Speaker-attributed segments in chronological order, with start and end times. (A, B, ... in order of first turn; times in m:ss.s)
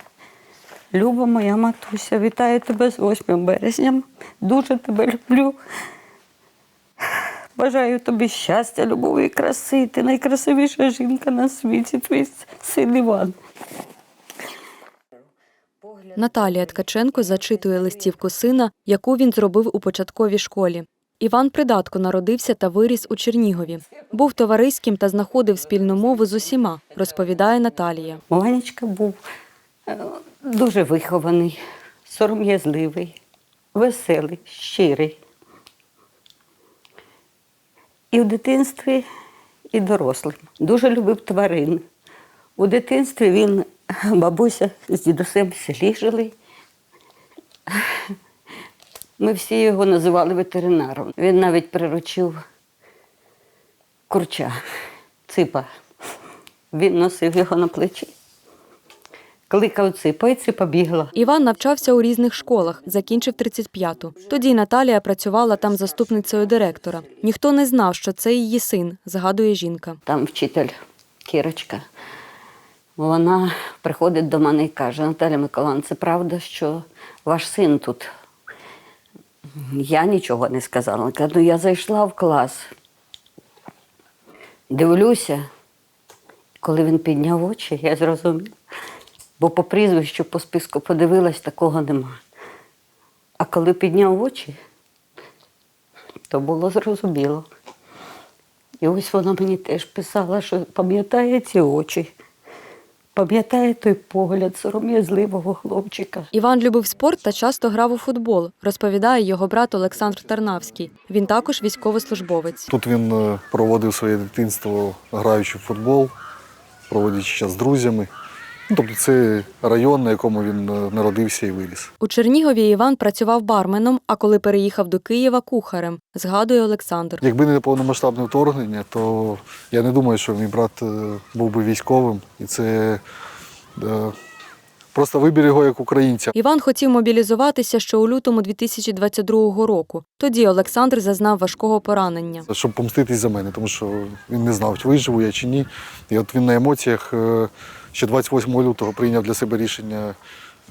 0:00.9-0:05.6 A
0:07.6-0:13.4 A
0:16.2-0:28.2 B
0:28.3-0:29.2 A
0:29.9-0:33.2 A
0:33.7-0:35.2 A
0:38.1-0:39.1 A
0:39.7-0:41.8 A
0:42.6-0:46.4 A
0:49.2-0:52.4 A
0:54.1-0:54.6 A
0:55.3-0:55.7 A
0:56.7-0:58.1 A
0:59.5-1:01.1 A
1:01.2-1:10.0 B
1:10.1-1:10.8 A
1:11.3-1:11.8 A
1:13.0-1:18.1 A
1:19.6-1:22.7 A
1:24.7-1:25.4 A
1:26.6-1:28.5 A
1:29.4-1:32.2 A
1:33.4-1:34.6 A
1:36.3-1:37.5 A
1:38.8-1:42.1 A
1:43.2-1:46.3 A
1:46.3-1:52.7 B
1:52.7-1:56.1 C
1:56.9-1:58.1 C
1:58.7-2:01.9 C
2:02.0-2:07.2 B
2:07.2-2:13.0 C
2:13.8-2:14.2 C
2:14.9-2:16.3 C
2:16.4-2:22.5 B
2:22.5-2:30.2 C